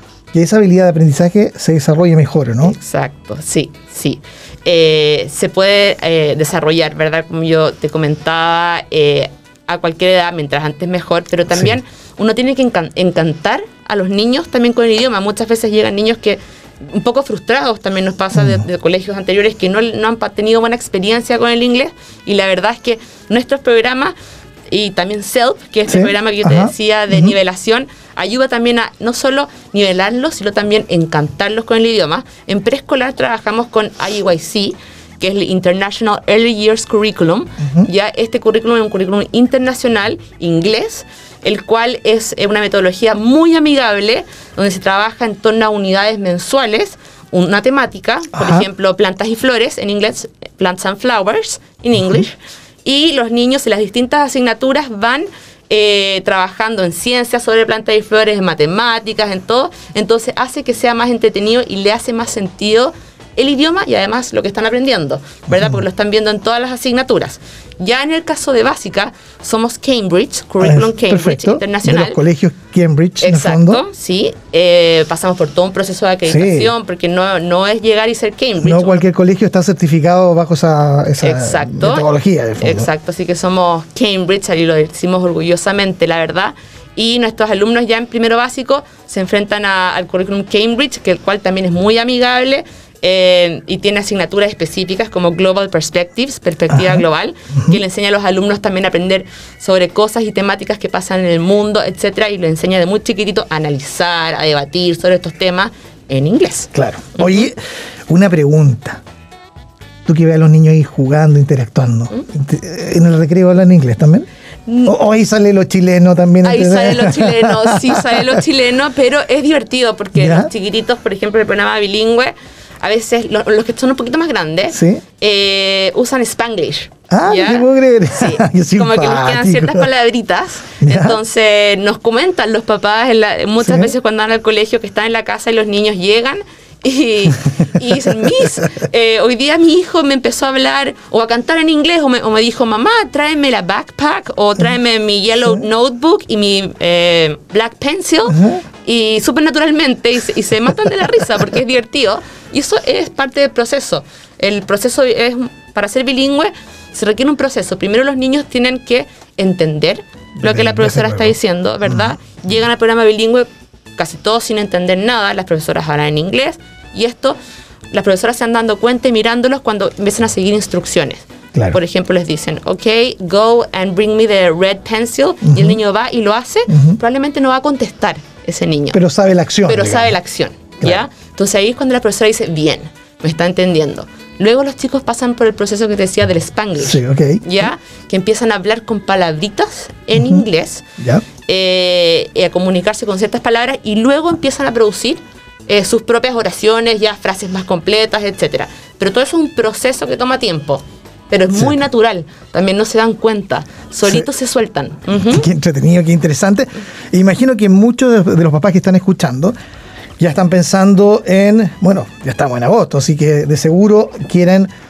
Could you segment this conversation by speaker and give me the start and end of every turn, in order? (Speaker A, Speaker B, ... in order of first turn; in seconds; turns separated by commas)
Speaker A: 0.3-2.7, Speaker B: 2.6-24.1, Speaker A: 11.5-11.8, Speaker A: 18.3-18.6, Speaker B: 24.7-72.2, Speaker A: 25.9-27.3, Speaker A: 37.6-37.9, Speaker A: 48.3-48.7, Speaker A: 65.5-65.8, Speaker A: 70.6-73.8, Speaker B: 73.2-79.0, Speaker A: 76.2-76.7, Speaker A: 78.6-82.9, Speaker B: 81.2-82.1, Speaker B: 82.6-107.4, Speaker A: 96.7-97.0, Speaker A: 106.7-107.6, Speaker A: 108.1-109.0, Speaker A: 110.0-114.2, Speaker B: 114.7-114.9, Speaker A: 114.8-118.4, Speaker B: 116.4-163.4, Speaker A: 120.1-120.5, Speaker A: 124.7-125.0, Speaker A: 127.1-129.9, Speaker A: 130.8-131.2, Speaker A: 133.6-133.9, Speaker A: 148.3-148.6, Speaker A: 160.4-161.3, Speaker A: 161.8-162.1, Speaker B: 164.0-167.3, Speaker B: 167.9-179.0, Speaker A: 175.4-175.8, Speaker A: 176.7-177.0, Speaker A: 178.9-180.2, Speaker B: 179.6-190.8, Speaker A: 186.8-187.7, Speaker A: 190.1-190.4, Speaker A: 191.0-191.2, Speaker B: 191.4-205.4, Speaker A: 201.5-201.8, Speaker A: 205.3-209.5, Speaker A: 210.2-214.7